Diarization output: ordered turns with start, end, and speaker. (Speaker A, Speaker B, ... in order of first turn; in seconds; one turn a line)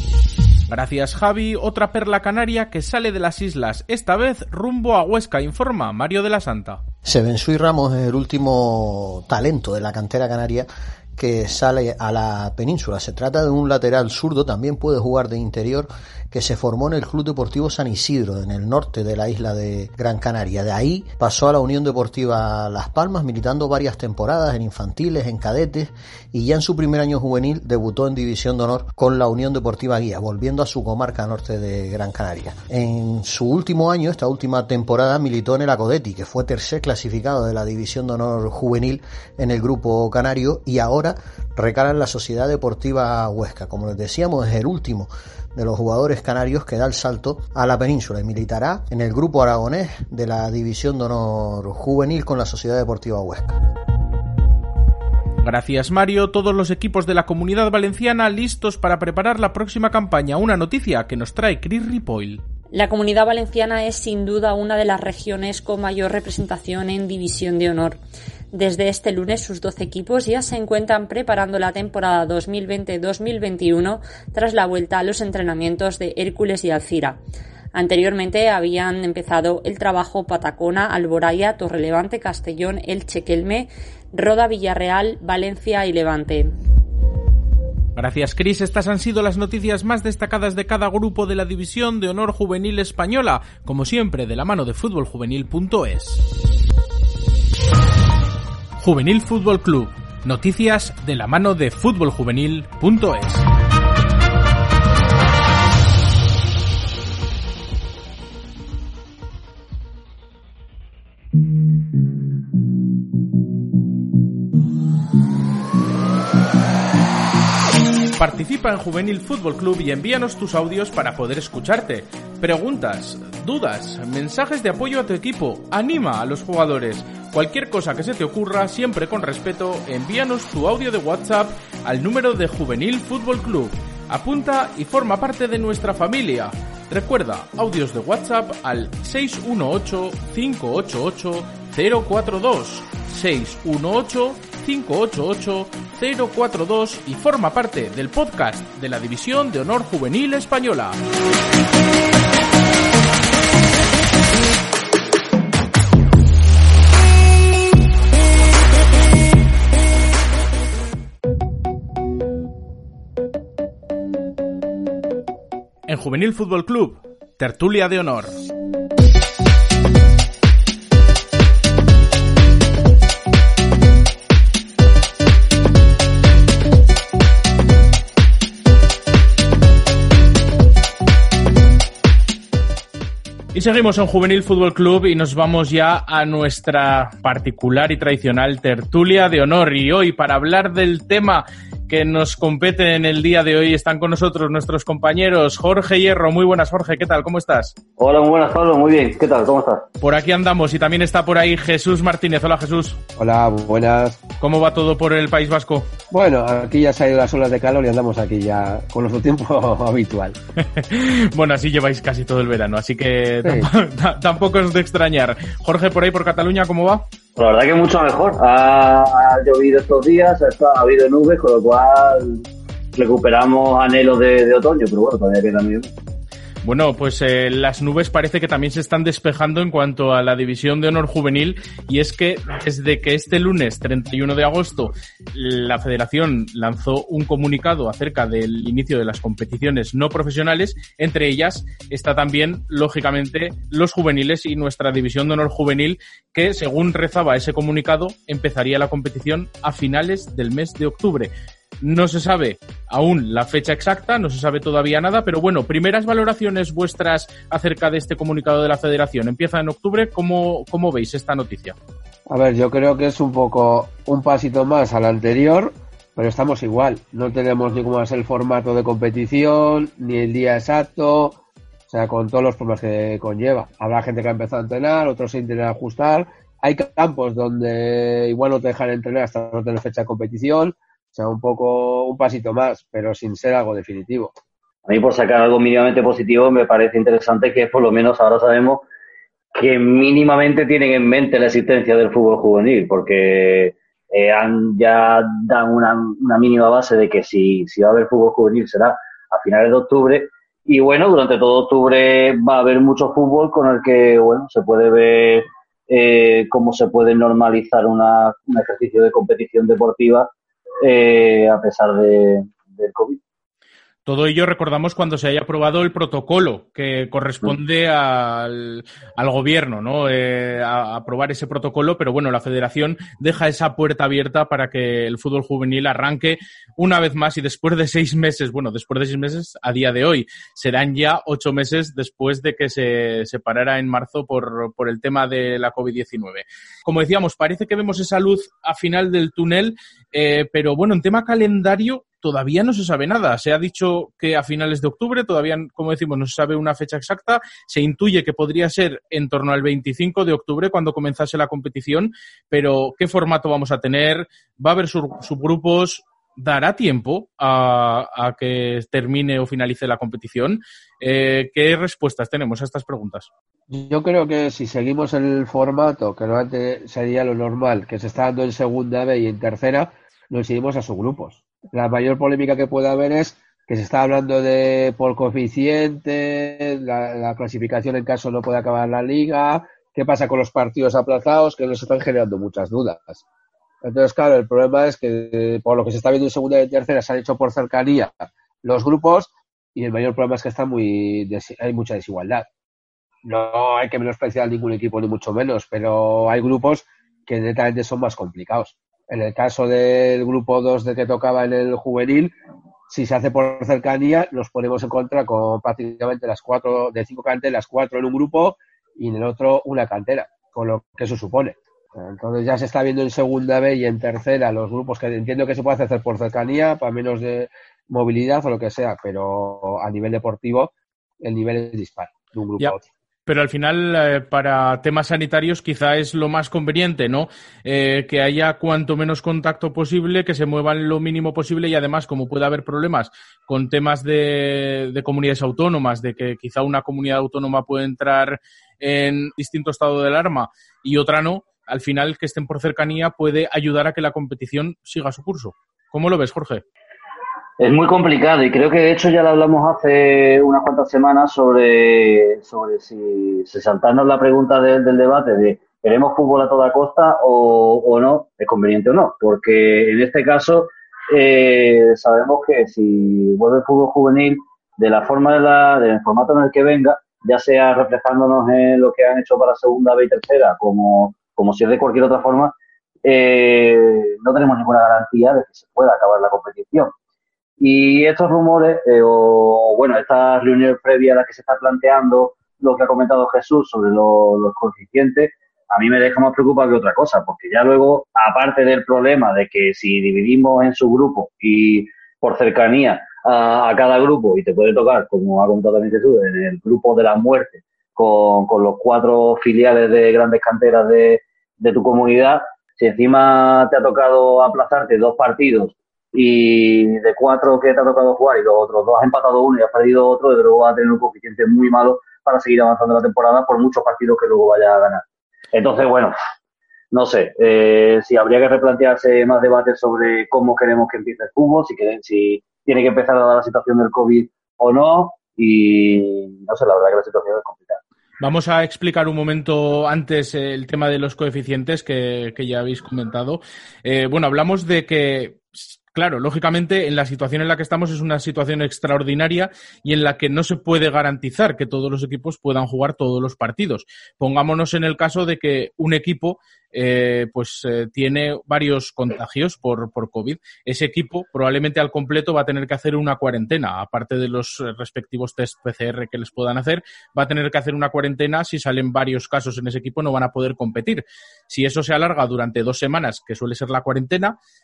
Speaker A: 0.7-6.8
Speaker B: 7.0-53.6
Speaker A: 55.4-62.4
Speaker C: 62.7-68.0
Speaker C: 68.5-77.2
Speaker C: 77.7-86.5
Speaker A: 88.0-96.2
Speaker A: 98.8-103.4
Speaker A: 118.2-151.0
Speaker A: 165.9-168.4
Speaker A: 183.5-197.8
Speaker D: 198.0-199.9
Speaker A: 200.0-203.0
Speaker E: 203.2-204.2
Speaker A: 204.4-205.9
Speaker E: 206.1-210.4
Speaker A: 210.6-217.1
Speaker E: 213.4-213.7
Speaker D: 217.4-225.9
Speaker A: 226.6-261.7
Speaker E: 262.3-271.4
Speaker E: 271.9-284.3
Speaker D: 284.9-288.9
Speaker D: 289.5-310.3
Speaker D: 310.8-313.2
Speaker A: 314.1-363.3
Speaker E: 363.7-383.2
Speaker E: 383.8-392.5
Speaker E: 393.2-402.3
Speaker E: 402.9-422.9
Speaker A: 423.2-446.6
Speaker D: 447.6-476.9
Speaker D: 477.6-516.1
Speaker D: 516.9-527.8
Speaker A: 528.2-564.4